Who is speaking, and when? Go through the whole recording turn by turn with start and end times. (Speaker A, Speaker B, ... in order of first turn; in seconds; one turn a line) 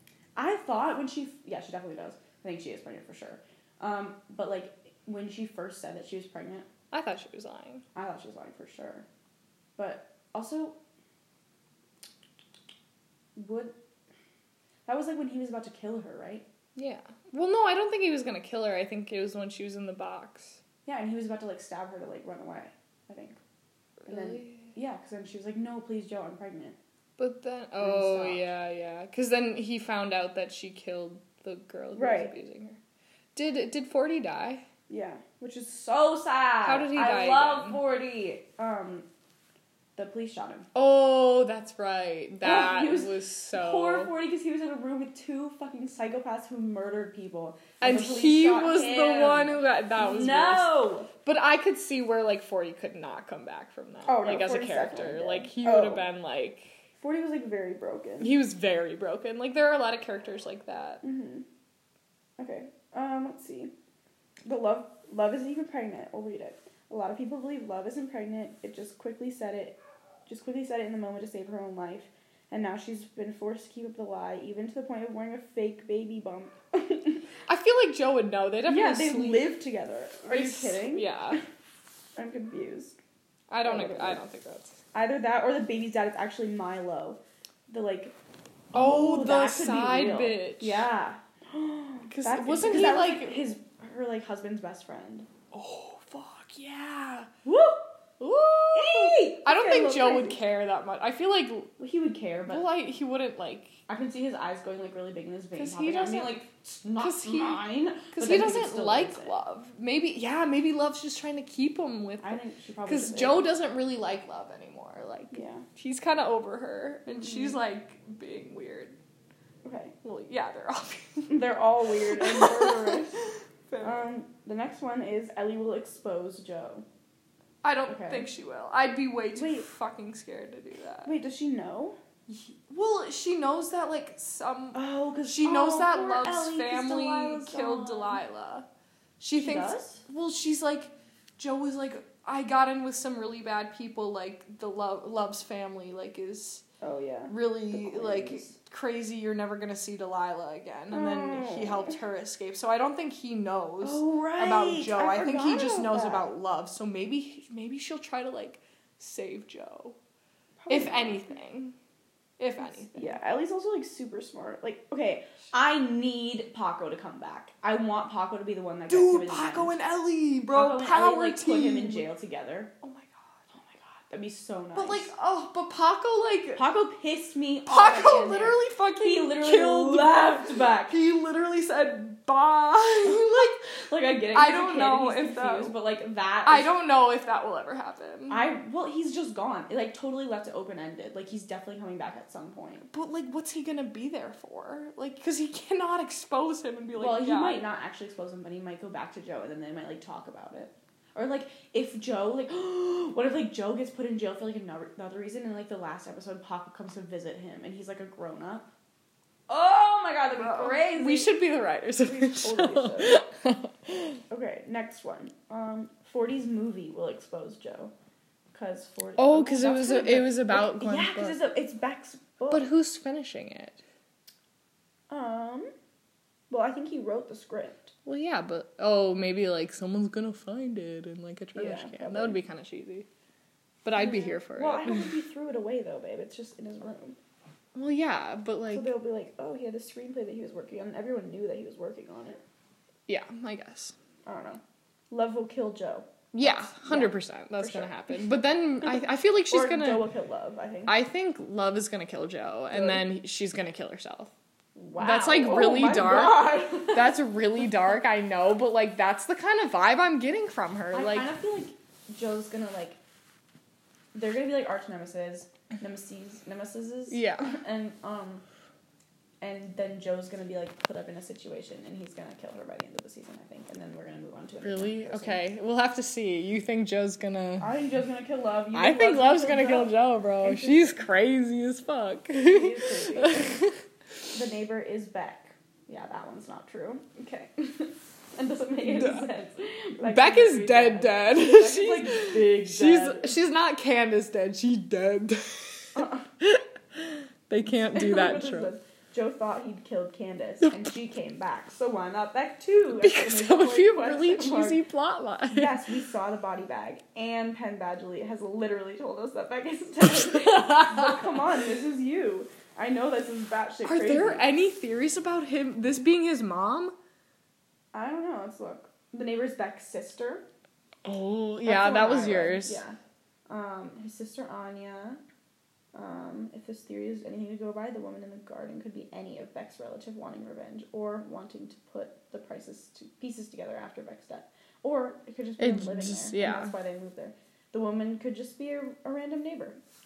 Speaker A: 0.3-6.7
Speaker B: 6.9-7.8
Speaker A: 7.9-9.1
Speaker A: 9.8-10.8
Speaker A: 13.3-13.7
Speaker A: 14.8-16.4
Speaker B: 16.8-20.6
Speaker A: 20.8-23.4
Speaker B: 24.0-24.7
Speaker A: 24.1-26.8
Speaker B: 27.2-32.8
Speaker A: 27.8-28.5
Speaker A: 31.9-32.3
Speaker B: 33.4-34.6
Speaker A: 34.9-39.1
Speaker B: 36.6-37.8
Speaker A: 40.0-40.7
Speaker B: 40.7-44.1
Speaker A: 42.4-51.1
Speaker B: 47.8-56.8
Speaker A: 54.0-56.1
Speaker A: 57.0-58.3
Speaker B: 58.2-61.0
Speaker A: 61.0-61.4
Speaker A: 62.4-63.7
Speaker A: 64.5-77.2
Speaker B: 77.5-79.6
Speaker A: 78.7-81.4
Speaker B: 80.3-81.4
Speaker A: 82.2-82.9
Speaker B: 83.5-84.7
Speaker A: 83.6-84.2
Speaker A: 84.9-88.1
Speaker B: 88.7-90.8
Speaker A: 88.7-95.3
Speaker B: 92.1-93.5
Speaker B: 95.5-97.3
Speaker A: 97.4-97.8
Speaker B: 98.2-101.7
Speaker A: 98.7-100.4
Speaker A: 101.8-102.7
Speaker B: 102.5-103.8
Speaker A: 103.9-109.3
Speaker B: 105.5-106.4
Speaker B: 107.0-119.0
Speaker A: 112.2-113.5
Speaker A: 115.3-115.6
Speaker A: 117.1-117.6
Speaker A: 119.6-119.9
Speaker B: 120.0-121.4
Speaker A: 121.3-123.2
Speaker B: 122.2-124.0
Speaker A: 123.8-126.8
Speaker B: 127.6-131.1
Speaker A: 127.8-128.3
Speaker A: 129.3-129.7
Speaker A: 131.0-132.0
Speaker B: 132.3-138.7
Speaker A: 134.7-138.2
Speaker B: 139.2-146.6
Speaker A: 139.3-140.0
Speaker A: 146.8-148.6
Speaker B: 147.3-160.0
Speaker A: 150.9-152.0
Speaker A: 153.8-156.3
Speaker A: 160.6-161.3
Speaker B: 160.7-161.7
Speaker B: 162.4-163.2
Speaker A: 162.9-169.8
Speaker B: 168.9-172.1
Speaker A: 170.5-172.7
Speaker B: 172.8-173.1
Speaker A: 173.5-175.1
Speaker B: 174.7-176.6
Speaker A: 176.5-181.0
Speaker B: 177.7-183.6
Speaker A: 183.0-186.7
Speaker B: 184.3-185.8
Speaker B: 186.4-188.5
Speaker A: 188.3-192.8
Speaker B: 192.8-197.6
Speaker A: 196.9-208.7
Speaker A: 209.5-211.4
Speaker B: 210.3-214.2
Speaker A: 212.0-213.2
Speaker A: 214.3-217.9
Speaker A: 218.5-222.7
Speaker B: 219.2-221.4
Speaker B: 222.5-223.8
Speaker A: 225.1-225.7
Speaker A: 226.5-227.9
Speaker B: 228.1-233.1
Speaker A: 231.5-232.4
Speaker B: 233.8-235.2
Speaker A: 233.9-237.2
Speaker B: 237.7-238.9
Speaker A: 238.7-242.4
Speaker B: 243.1-243.9
Speaker A: 244.2-248.2
Speaker B: 246.3-250.1
Speaker A: 248.8-250.9
Speaker B: 250.8-254.3
Speaker A: 252.7-253.0
Speaker A: 254.8-257.2
Speaker B: 254.9-261.4
Speaker A: 260.9-263.0
Speaker A: 264.1-268.4
Speaker B: 267.1-267.6
Speaker A: 269.4-275.4
Speaker B: 274.6-277.8
Speaker A: 277.6-281.0
Speaker B: 278.7-283.8
Speaker A: 282.4-283.6
Speaker A: 284.3-293.3
Speaker B: 288.8-289.2
Speaker B: 290.0-298.7
Speaker A: 295.9-296.3
Speaker A: 297.8-304.8
Speaker B: 300.6-300.9
Speaker B: 302.9-305.8
Speaker A: 305.5-314.5
Speaker B: 310.0-311.4
Speaker B: 313.8-316.9
Speaker A: 317.9-320.4
Speaker B: 321.0-322.8
Speaker A: 321.6-325.2
Speaker A: 325.9-339.8
Speaker B: 335.6-336.7